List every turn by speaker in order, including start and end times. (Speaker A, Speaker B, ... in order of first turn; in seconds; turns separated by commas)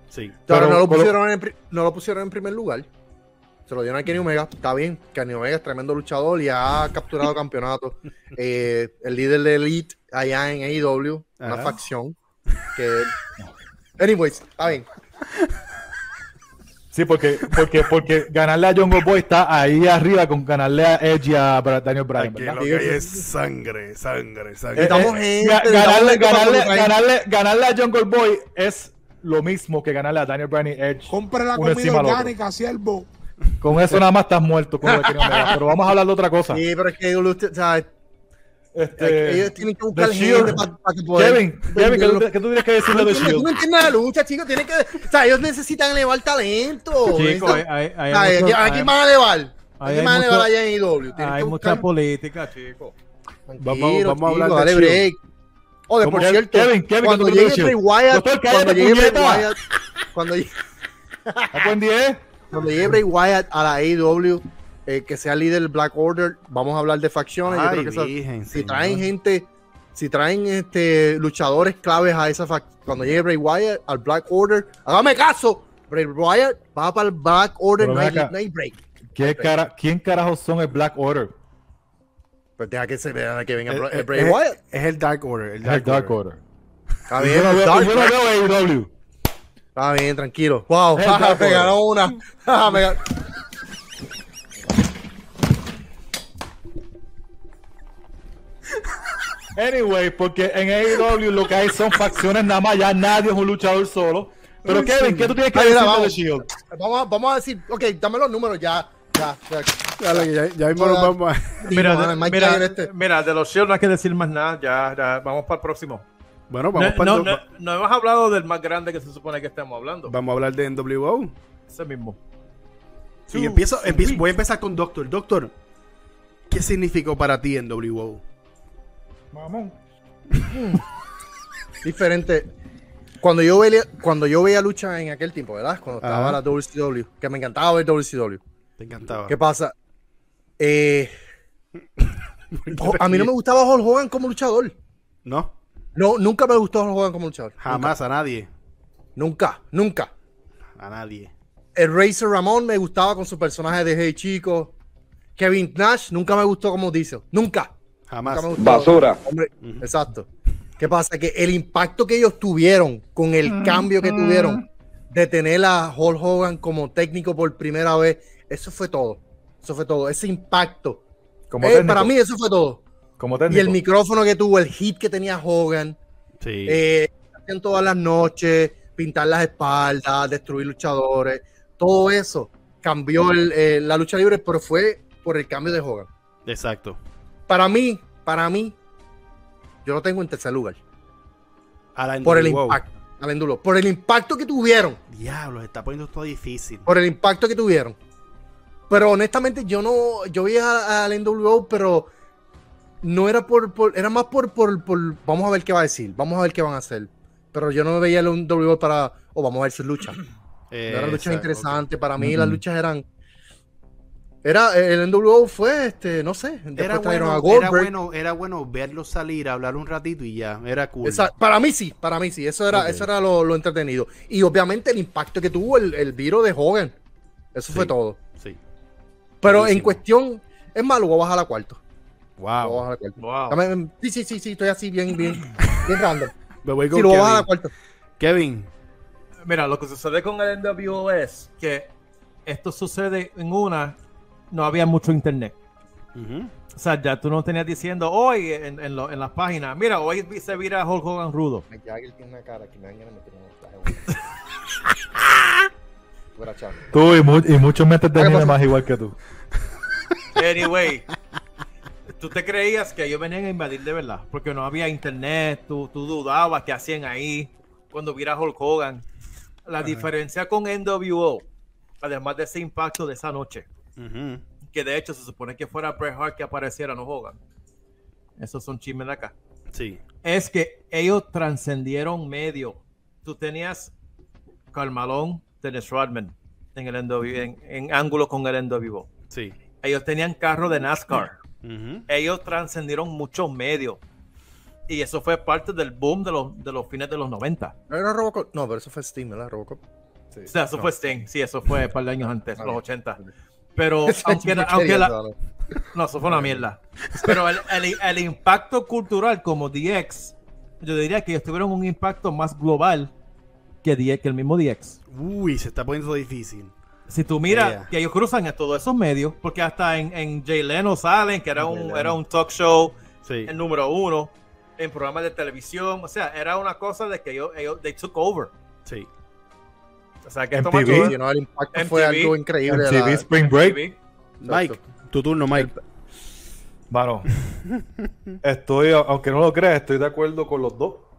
Speaker A: 0.1-0.4, Speaker B: 0.5-1.1, Speaker C: 0.5-2.9, Speaker C: 3.7-12.2, Speaker A: 11.4-11.8, Speaker C: 12.7-13.2, Speaker C: 14.0-14.9, Speaker B: 16.9-22.6, Speaker A: 22.1-25.1, Speaker C: 22.6-23.1, Speaker B: 24.8-32.3, Speaker C: 24.8-26.9, Speaker D: 31.1-33.1, Speaker B: 33.6-36.6, Speaker C: 34.9-35.6, Speaker C: 36.5-37.9, Speaker B: 38.7-43.6, Speaker C: 39.0-42.3, Speaker C: 42.8-51.9, Speaker E: 47.0-48.9, Speaker E: 49.8-50.5, Speaker E: 51.1-52.9, Speaker C: 53.5-55.2, Speaker A: 53.6-55.1, Speaker C: 55.9-59.6, Speaker A: 56.0-56.3, Speaker B: 56.1-59.5, Speaker C: 60.1-60.5, Speaker C: 61.3-61.7, Speaker B: 61.5-62.2, Speaker C: 62.5-79.5, Speaker A: 67.5-69.1, Speaker B: 77.8-78.3, Speaker B: 79.2-81.3, Speaker C: 82.6-84.6, Speaker A: 83.7-86.2, Speaker B: 85.6-86.4, Speaker C: 87.1-88.2, Speaker B: 87.2-88.9, Speaker C: 89.8-93.2, Speaker B: 90.9-91.8, Speaker B: 99.5-106.5, Speaker C: 104.7-112.9, Speaker A: 110.0-111.7, Speaker E: 111.7-116.1, Speaker A: 116.5-117.4, Speaker E: 116.8-120.1, Speaker A: 120.1-121.3, Speaker E: 121.7-122.2, Speaker E: 123.3-124.2, Speaker A: 123.3-125.5, Speaker A: 126.5-128.2, Speaker B: 129.3-129.7, Speaker C: 130.5-130.8, Speaker C: 131.8-132.5, Speaker C: 133.2-138.4, Speaker A: 136.0-136.4, Speaker A: 138.8-139.3, Speaker C: 139.3-139.7, Speaker C: 140.6-141.1, Speaker A: 142.6-143.3, Speaker C: 142.7-144.7, Speaker A: 145.2-145.5, Speaker C: 146.0-148.0, Speaker A: 147.6-148.5, Speaker C: 149.2-150.1, Speaker A: 150.8-151.3, Speaker C: 151.8-154.7, Speaker C: 155.4-157.7, Speaker A: 158.1-158.8, Speaker C: 158.3-160.3, Speaker A: 159.6-159.9, Speaker C: 160.8-171.0, Speaker B: 171.5-172.1, Speaker C: 171.6-172.8, Speaker B: 173.2-173.8, Speaker C: 173.5-176.0, Speaker A: 176.4-176.8, Speaker C: 176.7-186.1, Speaker A: 186.5-187.0, Speaker C: 187.5-188.8, Speaker C: 189.8-190.8, Speaker A: 191.9-192.8, Speaker C: 192.2-195.0, Speaker A: 195.1-196.9, Speaker C: 196.9-198.0, Speaker C: 198.9-202.1, Speaker C: 203.0-210.2, Speaker A: 210.7-211.8, Speaker C: 210.9-213.0, Speaker B: 212.2-212.6, Speaker C: 214.4-217.9, Speaker A: 216.8-221.3, Speaker C: 221.0-226.9, Speaker A: 222.7-223.1, Speaker C: 227.5-228.2, Speaker A: 227.7-228.6, Speaker C: 229.4-231.8, Speaker A: 229.4-230.0, Speaker A: 232.4-232.9, Speaker C: 232.6-236.3, Speaker E: 233.2-233.6, Speaker A: 236.6-237.5, Speaker C: 236.9-237.7, Speaker A: 238.2-238.7, Speaker E: 239.5-241.9, Speaker E: 242.5-244.0, Speaker E: 244.5-245.6, Speaker A: 246.2-246.5, Speaker E: 246.8-251.7, Speaker C: 251.7-254.2, Speaker C: 256.4-256.9, Speaker B: 256.9-259.1, Speaker C: 258.1-258.6, Speaker E: 260.4-261.1, Speaker E: 262.1-269.0, Speaker E: 269.7-271.4, Speaker A: 269.8-270.1, Speaker E: 272.0-273.7, Speaker A: 274.0-274.4, Speaker E: 274.7-277.4, Speaker E: 278.4-279.3, Speaker A: 279.7-280.0, Speaker E: 280.2-283.9, Speaker E: 284.7-289.1, Speaker A: 289.3-289.6, Speaker E: 289.8-291.4, Speaker A: 291.6-292.1, Speaker E: 292.1-294.0, Speaker E: 294.9-297.7, Speaker C: 297.9-299.8, Speaker E: 300.5-303.2, Speaker C: 302.6-303.3, Speaker E: 303.8-305.1, Speaker C: 304.1-305.3, Speaker E: 305.9-313.1, Speaker C: 306.3-306.6, Speaker E: 313.8-315.0, Speaker A: 315.1-316.7, Speaker E: 317.1-328.5, Speaker A: 317.5-317.9, Speaker C: 321.6-322.2, Speaker A: 323.2-323.5, Speaker E: 330.2-331.2, Speaker B: 330.5-331.2, Speaker C: 330.8-333.3, Speaker E: 331.7-332.4, Speaker B: 332.7-333.8, Speaker E: 333.6-334.0, Speaker A: 334.4-335.7, Speaker C: 334.5-334.8, Speaker B: 336.9-337.3, Speaker B: 338.4-341.1